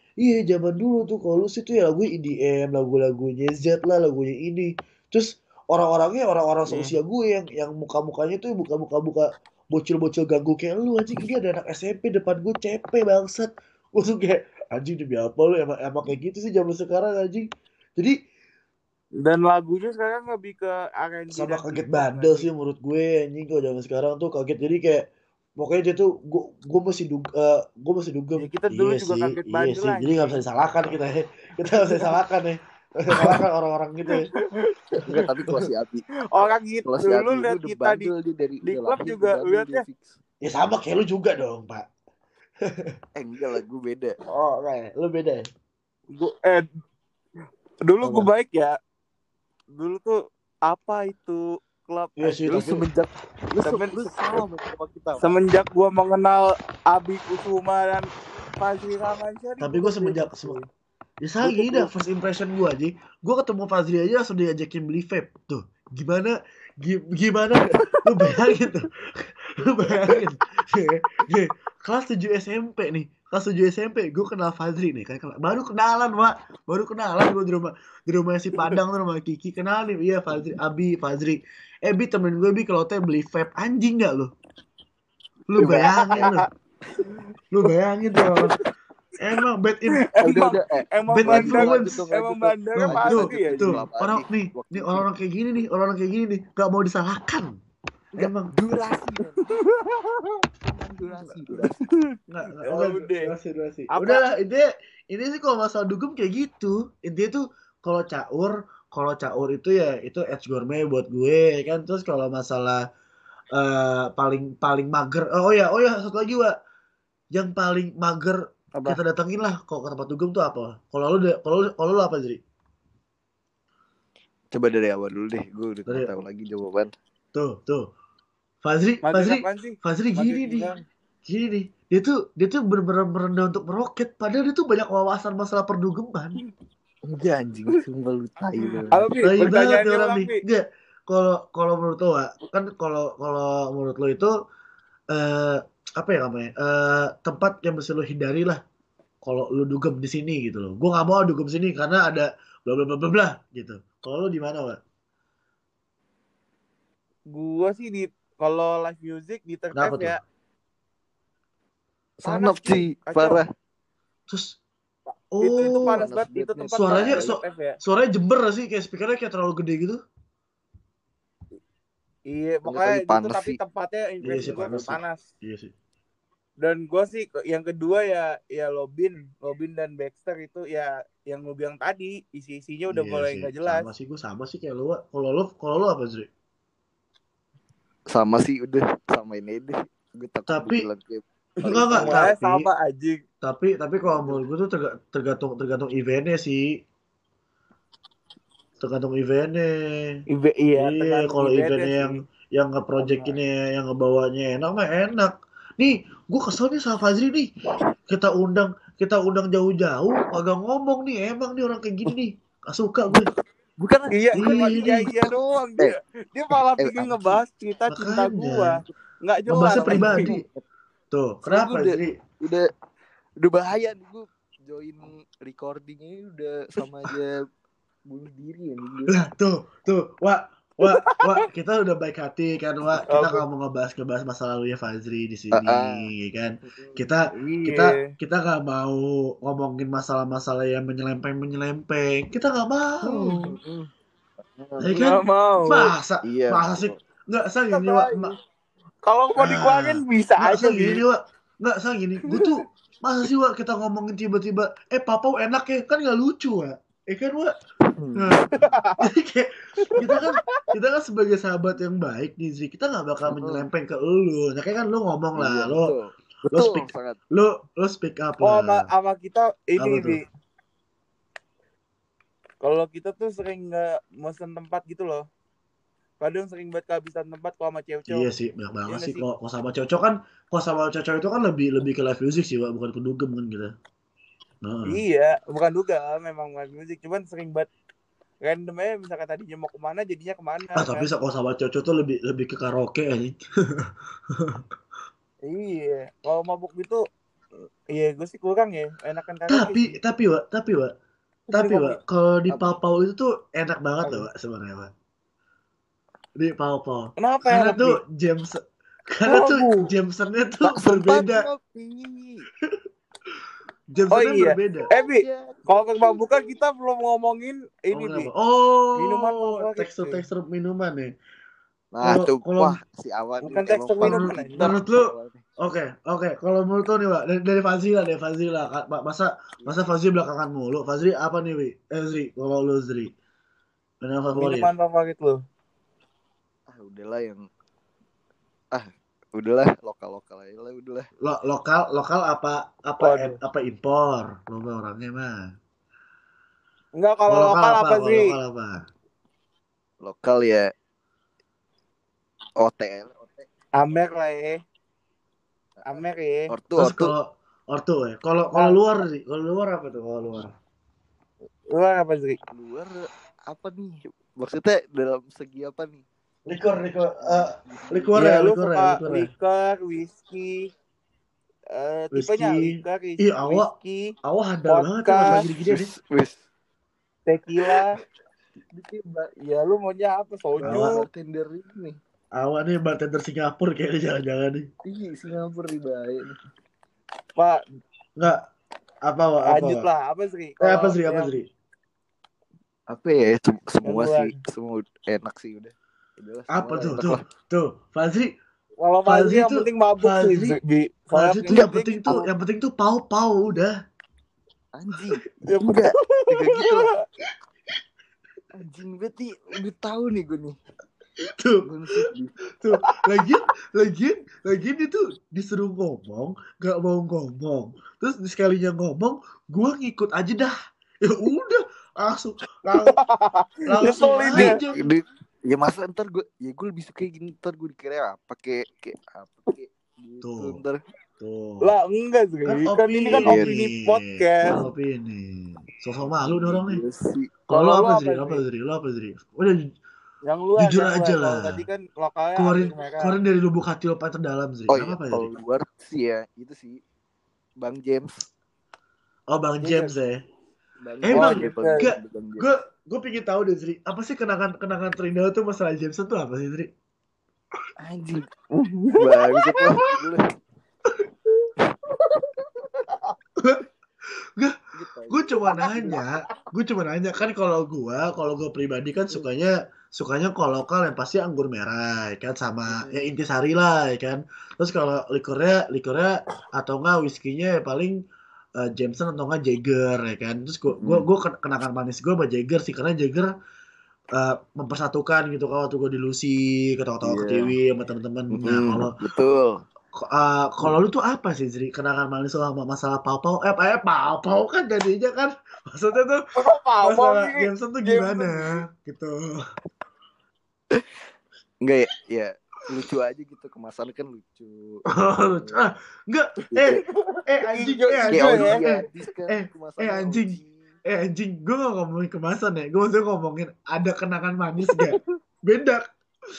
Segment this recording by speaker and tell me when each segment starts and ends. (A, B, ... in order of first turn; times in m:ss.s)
0:00.2-0:17.5 A
0:06.7-0:07.0 B
0:19.2-0:22.5 B
0:21.3-0:25.1 A
0:25.6-0:34.3 A
0:28.4-0:30.4 B
0:34.3-0:35.3 B
0:35.0-0:36.0 C
0:36.3-0:38.1 B
0:36.8-0:40.2 C
0:38.6-0:39.8 B
0:40.4-0:41.9 A
0:42.6-0:43.0 A
0:43.2-0:44.2 C
0:44.3-0:45.5 A
0:46.1-0:46.6 B
0:47.9-0:48.8 B
0:48.0-0:48.3 A
0:49.7-0:52.8 B
0:52.2-0:52.9 A
0:52.5-0:55.3 C
0:53.6-0:54.4 B
0:55.2-1:00.7 B
0:59.6-1:00.6 A
1:01.2-1:24.3 A
1:01.4-1:01.9 C
1:25.5-1:26.5 A
1:25.6-1:26.3 C
1:25.6-1:26.4 B
1:27.5-1:28.6 A
1:29.2-1:30.0 A
1:30.1-1:33.8 B
1:30.2-1:35.0 C
1:31.1-1:32.0 A
1:32.8-1:37.5 A
1:38.2-1:38.5 A
1:38.2-1:39.6 C
1:39.4-1:40.4 B
1:40.6-1:41.9 C
1:41.6-1:42.0 B
1:42.3-1:52.8 A
1:42.6-1:43.3 B
1:43.9-1:44.3 B
1:53.6-1:56.5 A
1:57.3-2:02.4 A
2:04.5-2:06.9 C
2:07.3-2:07.9 A
2:08.6-2:10.7 A
2:09.0-2:10.8 B
2:11.3-2:16.4 A
2:17.1-2:19.1 C
2:18.9-2:20.4 B
2:19.2-2:24.3 A
2:25.1-2:28.6 A
2:29.2-2:34.8 A
2:37.3-2:40.2 B
2:39.7-2:40.2 A
2:42.2-2:43.5 C
2:42.2-2:43.4 B
2:44.3-2:44.6 A
2:45.3-2:46.0 A
2:45.4-2:47.8 B
2:45.6-2:47.3 C
2:46.8-2:50.0 A
2:52.3-2:55.2 B
2:52.7-2:53.6 C
2:54.2-2:55.7 A
2:56.6-3:03.9 B
3:02.9-3:06.3 A
3:08.1-3:12.3 C
3:10.5-3:10.9 A
3:11.6-3:12.7 A
3:11.6-3:13.2 B
3:13.4-3:16.6 A
3:18.8-3:20.2 A
3:20.3-3:22.2 B
3:20.8-3:27.5 A
3:23.0-3:23.4 C
3:28.1-3:33.3 A
3:33.1-3:35.9 C
3:34.1-3:40.3 B
3:34.4-3:35.1 A
3:36.5-3:37.4 C
3:37.9-3:38.8 A
3:39.5-3:40.4 A
3:39.5-3:40.6 C
3:41.1-3:42.1 A
3:41.4-3:42.7 C
3:43.4-3:47.4 C
3:48.1-3:49.2 C
3:49.1-4:03.5 A
3:50.8-3:51.4 B
3:53.1-3:53.4 B
3:55.5-3:56.1 C
3:56.7-3:57.0 C
3:57.3-3:58.1 B
4:03.0-4:03.9 C
4:04.6-4:05.0 C
4:04.8-4:08.3 A
4:05.0-4:05.9 B
4:06.2-4:07.0 C
4:07.7-4:08.3 B
4:09.0-4:11.0 B
4:09.4-4:17.5 A
4:18.0-4:18.6 C
4:18.2-4:18.5 A
4:18.6-4:19.0 B
4:19.0-4:25.9 A
4:19.9-4:20.7 B
4:23.3-4:23.6 C
4:25.4-4:27.2 C
4:26.5-4:28.9 A
4:28.4-4:30.2 B
4:29.8-4:30.2 A
4:32.6-4:35.2 B
4:36.2-4:38.3 B
4:38.1-4:43.7 A
4:38.9-4:39.2 B
4:44.6-4:45.0 A
4:44.9-4:47.7 B
4:48.4-4:51.1 B
4:50.8-4:54.6 A
4:55.5-4:57.0 B
4:57.9-5:00.0 B
4:59.5-5:00.9 A
5:01.5-5:02.0 B
5:01.5-5:04.9 A
5:02.5-5:02.8 C
5:06.4-5:11.5 A
5:07.2-5:08.0 B
5:09.3-5:09.9 B
5:10.6-5:12.5 C
5:13.9-5:14.9 A
5:14.1-5:18.3 B
5:14.9-5:16.3 C
5:17.9-5:21.1 A
5:19.0-5:20.2 B
5:21.9-5:25.4 C
5:22.0-5:22.8 A
5:23.4-5:24.7 B
5:24.0-5:33.1 A
5:29.6-5:30.0 C
5:34.0-5:34.7 A
5:34.4-5:35.4 B
5:36.7-5:37.4 C
5:38.7-5:41.1 C
5:41.2-5:45.5 A
5:43.0-5:43.4 B
5:47.0-5:48.4 B
5:47.3-5:48.8 A
5:50.0-5:50.7 C
5:52.6-5:53.5 C
5:53.8-5:54.6 B
5:55.9-5:56.5 B
5:56.5-5:57.1 C
5:56.8-6:00.5 A
6:01.7-6:02.4 B
6:02.5-6:06.0 C
6:06.5-6:09.3 A
6:07.2-6:08.1 C
6:08.2-6:10.7 B
6:11.7-6:14.1 B
6:12.1-6:13.7 A
6:14.2-6:15.9 A
6:14.7-6:15.4 B
6:15.3-6:16.4 C
6:17.3-6:18.0 B
6:18.7-6:19.3 C
6:19.4-6:21.0 B
6:20.6-6:22.0 C
6:20.6-6:21.0 A
6:22.4-6:24.7 A
6:24.8-6:26.3 C
6:27.4-6:27.6 B
6:28.2-6:28.4 A
6:29.0-6:29.9 A
6:29.5-6:31.3 B
6:30.6-6:31.5 A
6:32.9-6:37.2 C
6:33.8-6:34.4 B
6:36.5-6:38.3 A
6:38.8-6:42.2 B
6:39.1-6:40.6 A
6:41.1-6:43.7 A
6:41.6-6:42.3 C
6:44.8-6:46.9 C
6:45.5-6:47.0 B
6:48.6-6:50.6 C
6:51.2-6:52.0 A
6:51.6-6:52.3 C
6:52.6-7:03.0 A
7:02.8-7:04.6 B
7:03.7-7:04.9 A
7:04.3-7:10.8 C
7:10.2-7:10.6 A
7:11.2-7:11.7 A
7:11.6-7:14.6 B
7:12.4-7:16.8 A
7:13.2-7:13.5 C
7:16.2-7:17.3 C
7:17.5-7:19.7 A
7:17.5-7:18.4 B
7:20.3-7:23.2 B
7:20.6-7:21.6 A
7:22.4-7:25.3 A
7:24.7-7:26.8 C
7:27.6-7:28.3 C
7:29.3-7:30.2 A
7:29.6-7:29.9 B
7:30.8-7:32.5 C
7:31.0-7:36.7 A
7:31.1-7:31.9 B
7:37.8-7:38.3 C
7:38.6-7:39.8 B
7:39.0-7:40.3 C
7:43.4-7:43.6 A
7:44.8-7:46.0 C
7:45.1-7:58.0 A
7:45.5-7:46.1 B
7:52.7-7:53.1 C
7:58.6-8:03.3 A
8:00.7-8:01.0 C
8:04.2-8:08.9 A
8:07.0-8:07.5 C
8:08.3-8:09.6 C
8:10.0-8:16.2 A
8:16.4-8:18.6 B
8:16.8-8:19.4 A
8:21.6-8:24.8 C
8:24.9-8:35.8 A
8:25.4-8:25.7 C
8:26.5-8:26.8 C
8:27.5-8:28.7 B
8:28.1-8:30.7 C